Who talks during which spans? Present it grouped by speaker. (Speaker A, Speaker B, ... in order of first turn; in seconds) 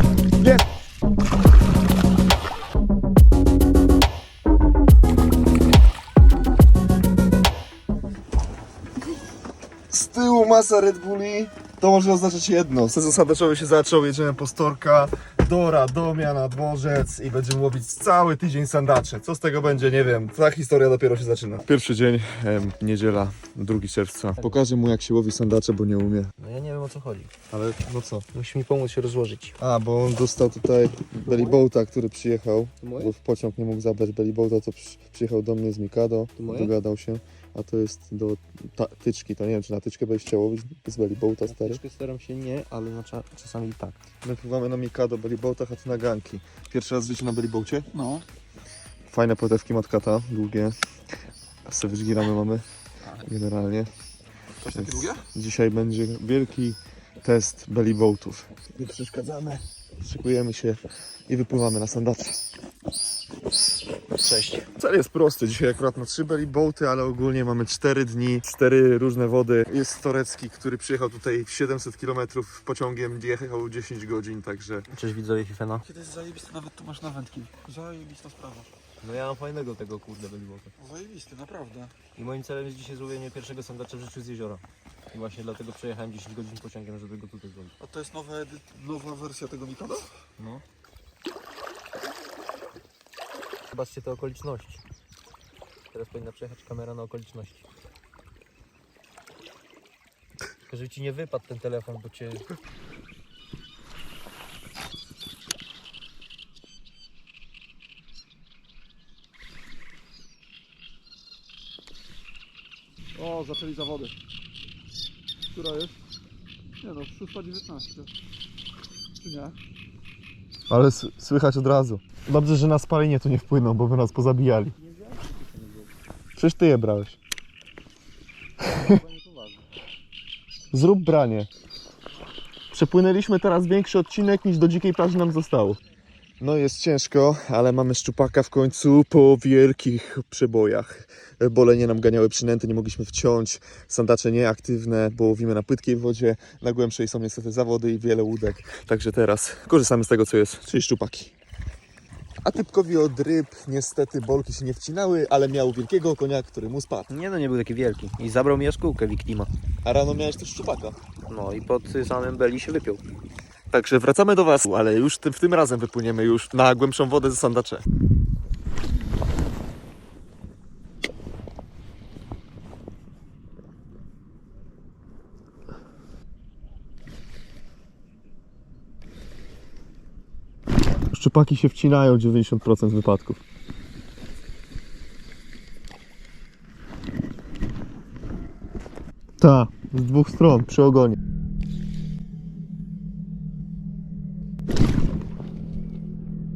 Speaker A: 9.9-26.3, 27.5-28.3, 29.6-41.8, 44.2-47.9, 49.1-50.8, 51.7-52.6, 53.2-53.9, 54.6-62.4, 64.5-74.9, 76.0-78.6, 81.0-81.9, 87.9-90.0, 120.7-124.7, 126.4-127.2, 130.7-131.5, 132.7-135.8, 136.4-151.3, 152.4-157.1, 159.8-161.0, 163.7-167.8, 181.1-183.4, 189.4-191.2
Speaker B: 26.4-27.3, 28.3-29.6, 31.2-31.6, 32.8-33.1, 36.4-36.7, 41.5-44.0, 64.2-64.5, 74.9-75.9, 79.0-80.8, 82.1-87.8, 90.4-90.6, 93.7-94.8, 95.9-97.7, 100.7-102.5, 124.7-125.9, 128.6-129.6, 157.1-159.5, 161.3-163.0
Speaker C: 48.0-48.2, 54.8-55.2, 75.9-78.7, 80.8-81.7, 87.8-88.4, 113.2-114.1, 115.5-115.9, 116.8-118.1, 119.2-119.5